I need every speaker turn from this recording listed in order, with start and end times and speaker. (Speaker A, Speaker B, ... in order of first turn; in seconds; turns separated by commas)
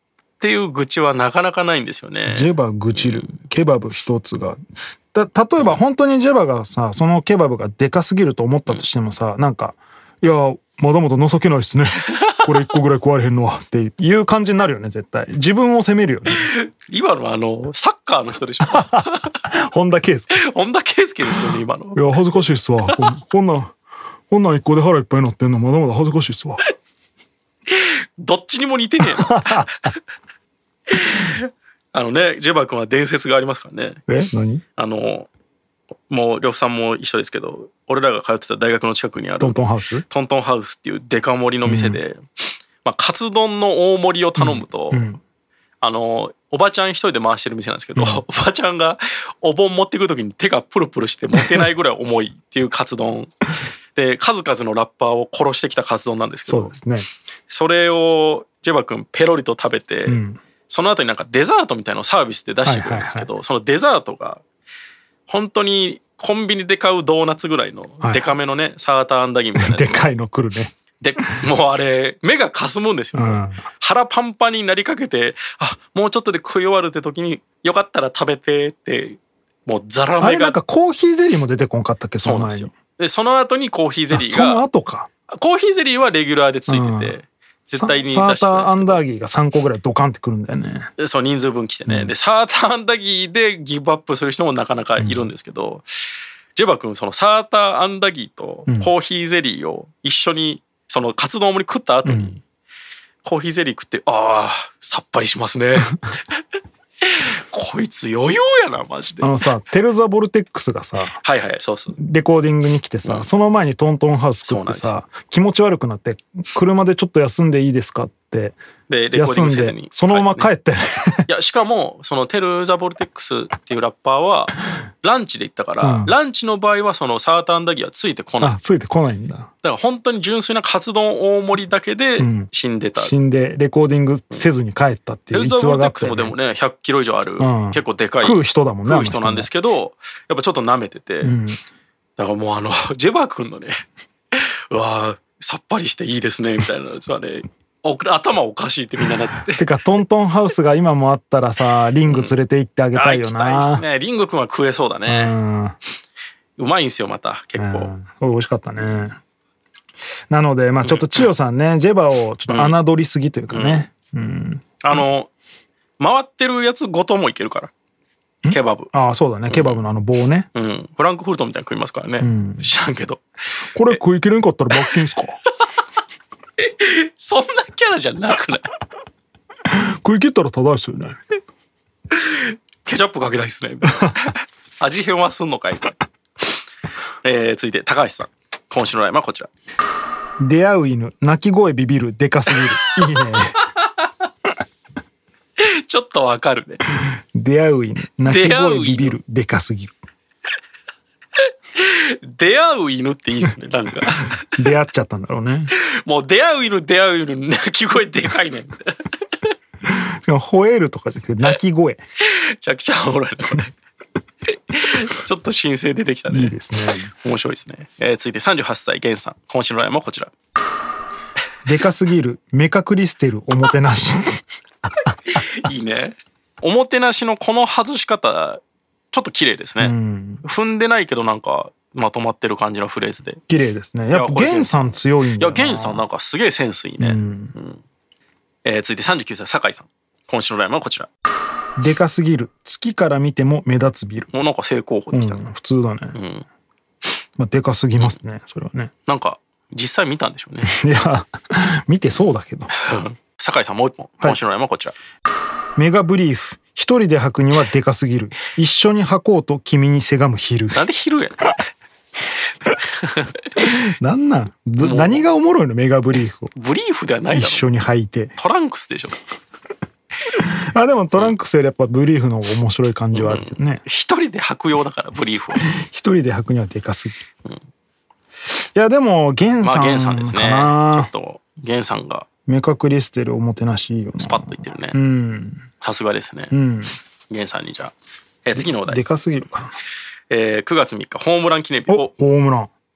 Speaker A: 0.4-3.3, Speaker B: 2.3-4.6, Speaker B: 5.1-16.5, Speaker A: 16.3-19.3, Speaker B: 18.7-20.3, Speaker A: 20.3-22.1, Speaker B: 21.9-23.7, Speaker B: 24.3-26.6, Speaker A: 27.7-30.0, Speaker B: 29.0-29.7, Speaker A: 30.9-34.0, Speaker B: 34.1-34.6, Speaker A: 34.8-35.3, Speaker A: 36.1-42.2, Speaker B: 39.4-40.0, Speaker B: 41.6-42.0, Speaker A: 42.8-45.1, Speaker B: 44.4-45.2, Speaker A: 45.8-53.3, Speaker B: 48.0-48.2, Speaker A: 53.9-56.8, Speaker B: 56.5-57.1, Speaker A: 57.5-64.4, Speaker B: 60.1-60.4, Speaker B: 62.6-63.3, Speaker A: 65.3-70.0, Speaker B: 68.0-68.3, Speaker B: 69.5-71.4, Speaker A: 71.0-80.5, Speaker B: 73.1-73.6, Speaker B: 80.2-82.7, Speaker A: 82.2-84.6, Speaker B: 84.1-85.1, Speaker A: 85.3-89.0, Speaker B: 86.7-87.2, Speaker B: 87.8-90.9, Speaker A: 91.0-95.9, Speaker B: 91.9-92.1, Speaker B: 95.0-95.3, Speaker A: 96.5-102.4, Speaker B: 102.0-102.4, Speaker A: 103.2-106.4, Speaker A: 107.0-109.5, Speaker B: 109.2-111.2, Speaker A: 111.2-112.0, Speaker B: 112.0-118.6, Speaker A: 114.4-115.0, Speaker A: 118.9-120.5, Speaker B: 119.1-121.3, Speaker A: 121.3-128.6, Speaker B: 125.8-126.1, Speaker B: 128.4-129.5, Speaker A: 129.6-133.1, Speaker B: 132.2-136.3, Speaker A: 135.3-141.3, Speaker B: 137.4-139.5, Speaker B: 141.2-141.6, Speaker A: 142.2-149.6, Speaker B: 149.5-153.8, Speaker A: 152.1-152.3, Speaker A: 152.9-155.4, Speaker B: 155.1-155.7, Speaker A: 156.6-157.9, Speaker B: 157.6-159.2, Speaker A: 158.8-159.1, Speaker B: 160.3-165.0, Speaker A: 160.8-161.3, Speaker A: 162.5-162.7, Speaker A: 163.5-163.8, Speaker A: 164.8-165.3, Speaker A: 166.0-167.7, Speaker B: 168.4-170.5, Speaker A: 168.5-168.9, Speaker A: 169.5-169.8, Speaker A: 170.5-173.2, Speaker B: 172.2-172.7, Speaker B: 173.7-175.3, Speaker A: 176.6-178.7, Speaker B: 179.7-181.2, Speaker A: 182.1-186.0, Speaker A: 187.2-189.5, Speaker B: 190.4-193.6, Speaker A: 195.6-196.8, Speaker B: 197.3-199.9, Speaker A: 198.2-199.2, Speaker A: 201.7-204.5, Speaker B: 204.6-205.7, Speaker A: 205.7-209.5, Speaker B: 209.8-212.0, Speaker A: 212.2-213.7, Speaker A: 214.6-216.6, Speaker B: 216.3-217.1, Speaker A: 217.1-220.3, Speaker B: 221.6-224.4, Speaker A: 225.3-228.6, Speaker A: 229.1-233.4, Speaker B: 229.8-230.4, Speaker B: 233.5-236.0, Speaker A: 234.1-237.8, Speaker B: 237.0-237.5, Speaker A: 238.6-241.1, Speaker B: 241.8-244.3, Speaker A: 244.3-245.4, Speaker B: 245.1-246.2, Speaker A: 246.1-246.4, Speaker B: 247.4-248.9, Speaker A: 249.1-250.8, Speaker B: 250.6-252.7, Speaker A: 252.7-254.9, Speaker B: 255.8-260.8, Speaker A: 260.7-261.6, Speaker A: 262.8-263.7, Speaker B: 263.6-266.5, Speaker A: 264.8-265.2, Speaker A: 266.5-267.7, Speaker B: 267.3-268.3, Speaker A: 268.4-269.2, Speaker B: 270.7-273.8, Speaker A: 273.1-275.6, Speaker B: 275.5-277.2, Speaker B: 278.7-281.1, Speaker A: 279.6-282.3, Speaker B: 282.5-285.6, Speaker A: 284.2-285.0, Speaker A: 285.8-286.5, Speaker B: 286.5-286.9, Speaker A: 287.3-287.9, Speaker A: 288.4-289.0, Speaker B: 288.5-289.7, Speaker A: 290.3-292.1, Speaker B: 291.9-292.7